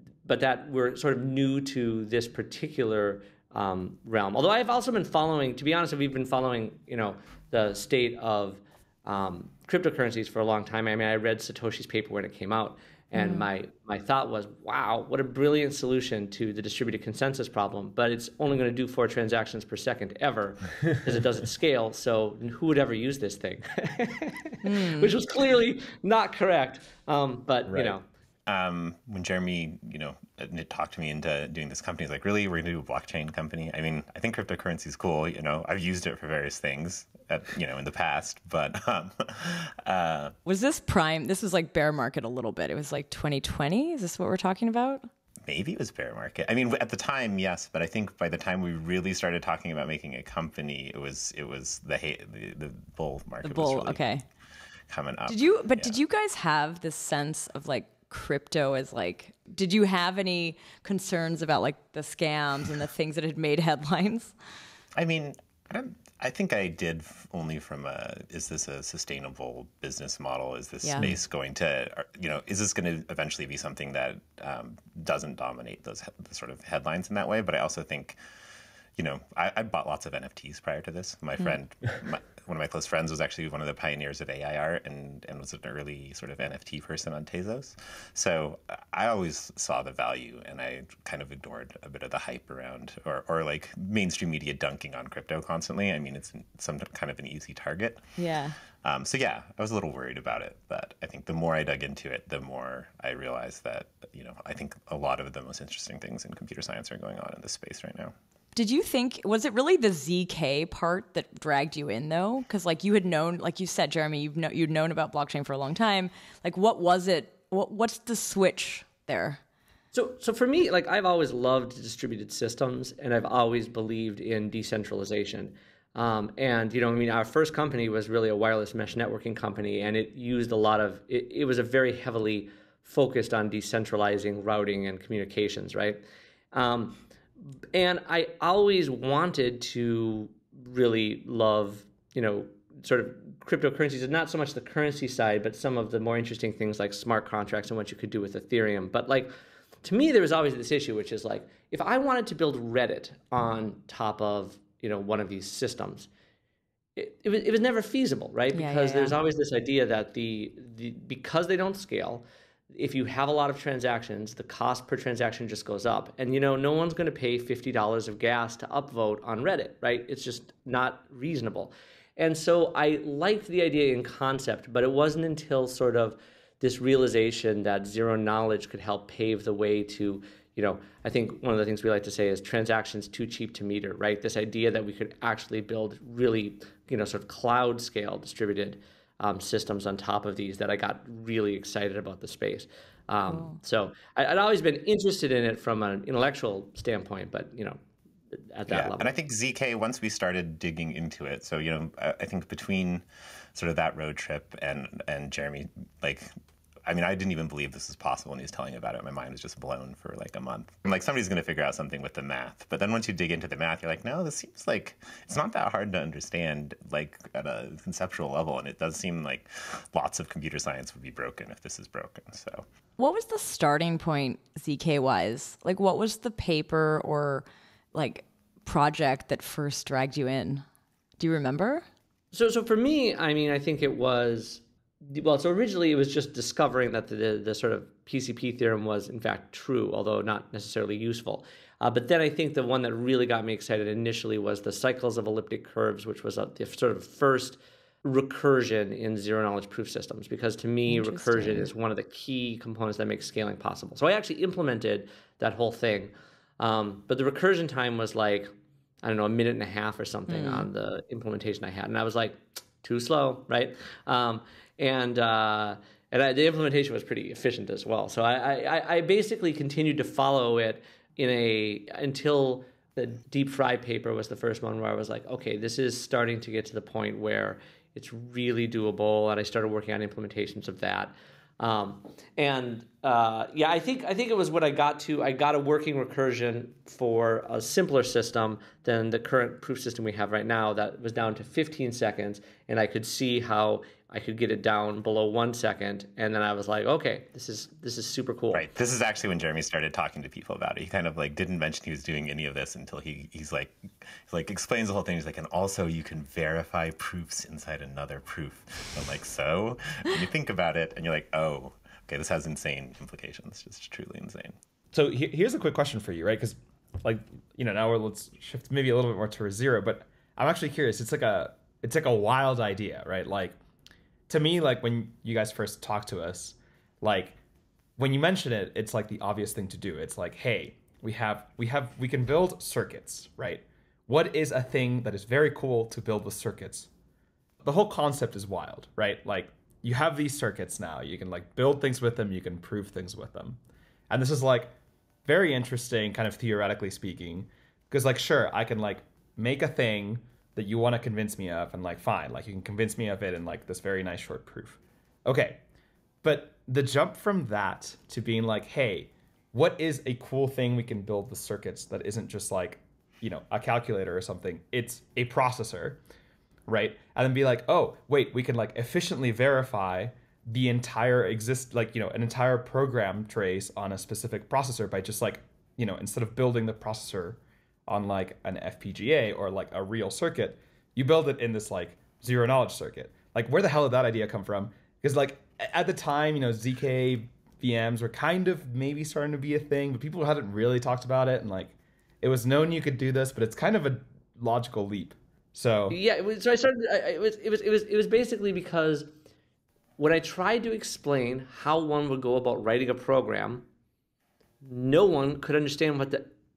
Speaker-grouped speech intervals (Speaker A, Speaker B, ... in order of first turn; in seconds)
Speaker A: 0.2-28.0, 119.9-137.0, 137.7-149.3, 149.8-156.1, 156.9-197.8, 198.3-199.1, 232.3-258.5, 259.0-298.6, 395.9-399.1, 400.0-403.6, 404.6-406.3
Speaker B: 13.1-13.5, 24.6-25.1, 40.5-45.1, 53.4-54.2, 55.3-64.3, 70.8-71.1, 98.2-98.6, 108.5-119.4, 158.5-159.2, 193.3-193.6, 223.0-230.6, 231.2-231.8, 250.9-251.7, 260.3-260.7
Speaker C: 27.7-27.9, 314.9-323.6, 324.3-327.4, 328.0-336.9, 337.6-344.7, 345.2-355.6, 356.2-366.0, 366.7-396.0
Speaker D: 28.5-40.3, 45.4-54.0, 54.9-56.0, 64.9-78.2, 79.0-98.0, 98.8-108.1, 198.7-206.3, 206.8-222.6, 298.5-314.6